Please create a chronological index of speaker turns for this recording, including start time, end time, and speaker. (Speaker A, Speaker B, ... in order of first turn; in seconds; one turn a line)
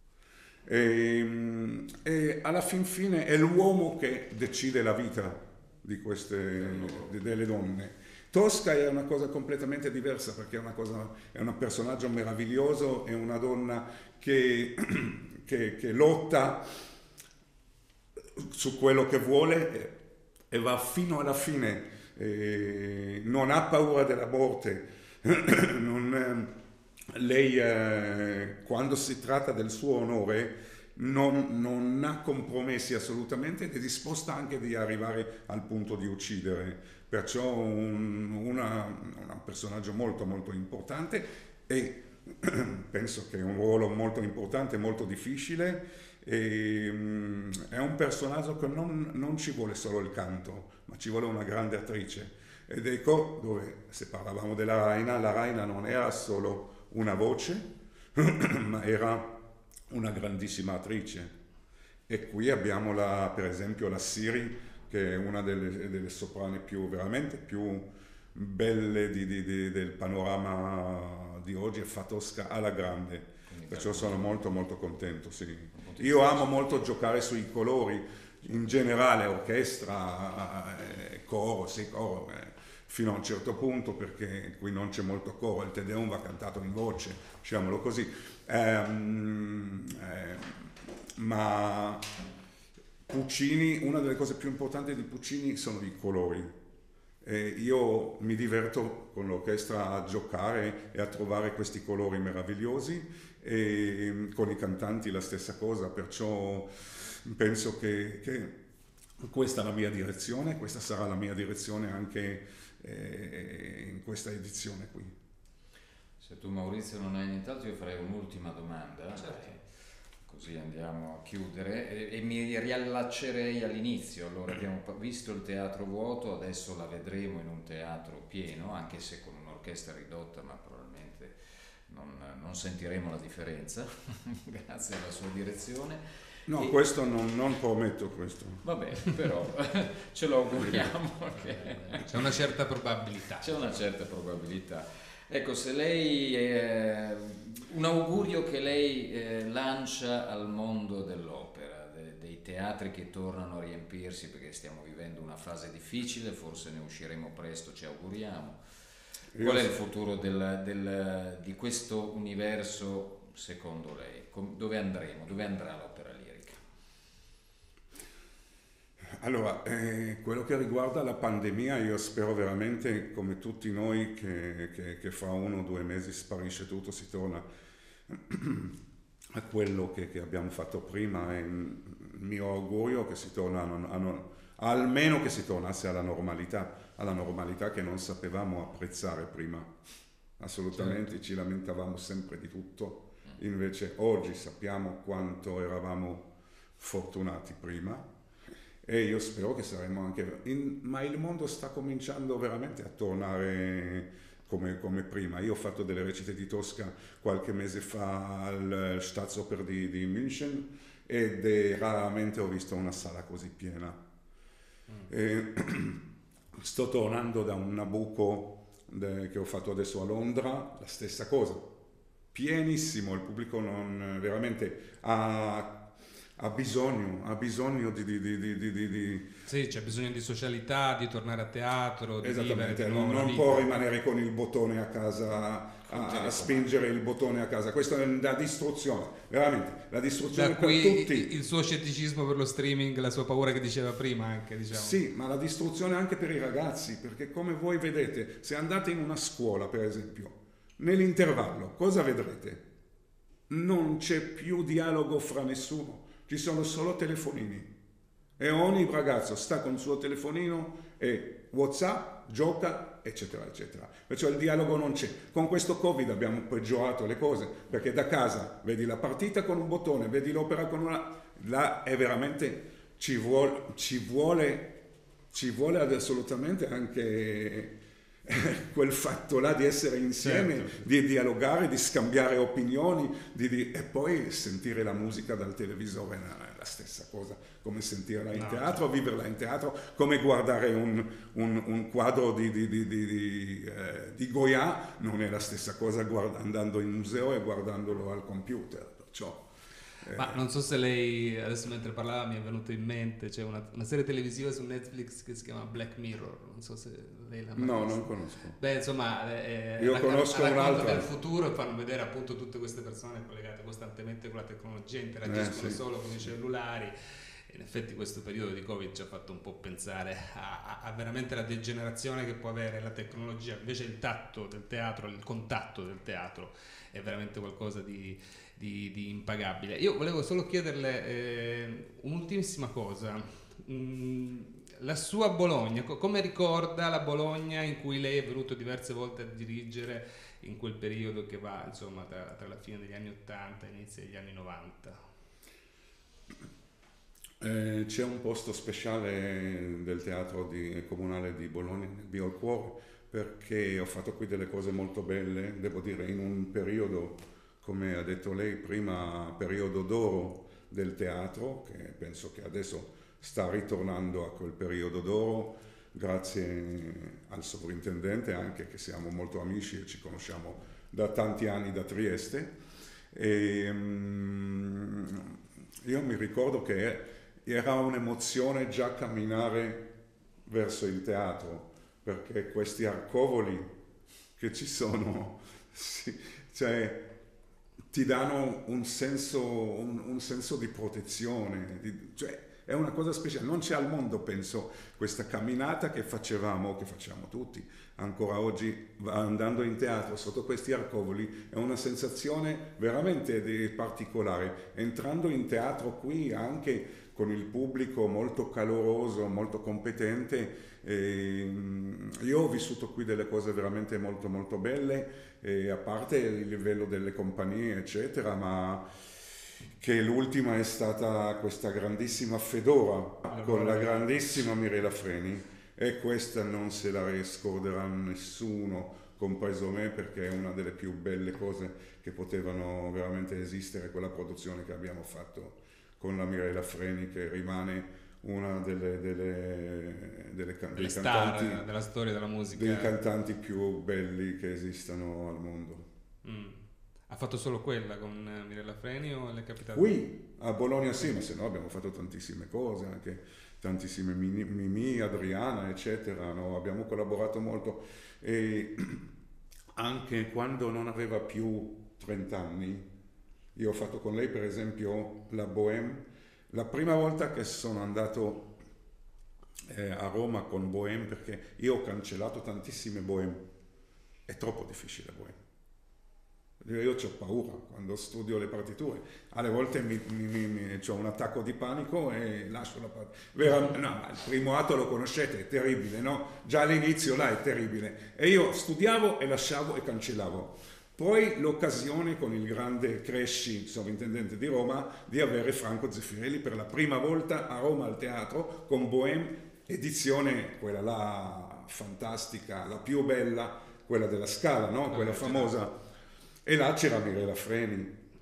Speaker A: 0.7-16.8
Speaker B: 6.7-7.1
Speaker A: 18.4-20.0
Speaker A: 20.5-26.6
Speaker A: 27.1-59.3
Speaker A: 59.9-61.3
Speaker A: 62.1-92.1
Speaker B: 73.5-74.3
Speaker B: 75.7-76.8
Speaker A: 93.1-96.6
Speaker A: 97.2-108.6
Speaker A: 109.2-115.2
Speaker B: 116.2-119.7
Speaker B: 120.2-131.4
Speaker B: 131.9-136.8
Speaker A: 136.5-138.7
Speaker B: 138.6-142.1
Speaker C: 142.0-143.7
Speaker B: 143.4-158.6
Speaker B: 159.3-166.6
Speaker A: 159.3-159.7
Speaker A: 169.2-177.4
Speaker A: 178.1-178.8
Speaker A: 179.3-189.7
Speaker A: 190.4-198.1
Speaker A: 198.8-214.0
Speaker A: 215.1-216.0
Speaker A: 216.5-221.7
Speaker A: 222.3-229.3
Speaker C: 229.5-233.7
Speaker A: 232.2-241.3
Speaker B: 235.9-236.7
Speaker C: 240.3-245.0
Speaker A: 244.7-252.6
Speaker A: 253.5-257.7
Speaker A: 258.4-299.4
Speaker C: 280.2-280.9
Speaker C: 288.3-288.8
Speaker A: 300.0-300.4
Speaker C: 300.1-316.9
Speaker A: 307.6-308.6
Speaker A: 309.8-311.1
Speaker A: 315.2-315.8
Speaker C: 317.5-345.0
Speaker A: 347.4-372.6
Speaker A: 373.1-379.9
Speaker A: 380.5-383.7
Speaker A: 384.4-387.1
Speaker A: 387.9-418.9
Speaker A: 419.8-441.6
Speaker C: 423.3-424.4
Speaker C: 440.8-442.9
Speaker A: 442.5-445.9
Speaker C: 446.2-450.0
Speaker A: 449.7-459.1
Speaker A: 459.8-462.9
Speaker A: 463.6-468.5
Speaker A: 469.7-473.4
Speaker A: 474.3-475.4
Speaker A: 476.6-505.8
Speaker C: 504.9-505.5
Speaker A: 506.4-508.0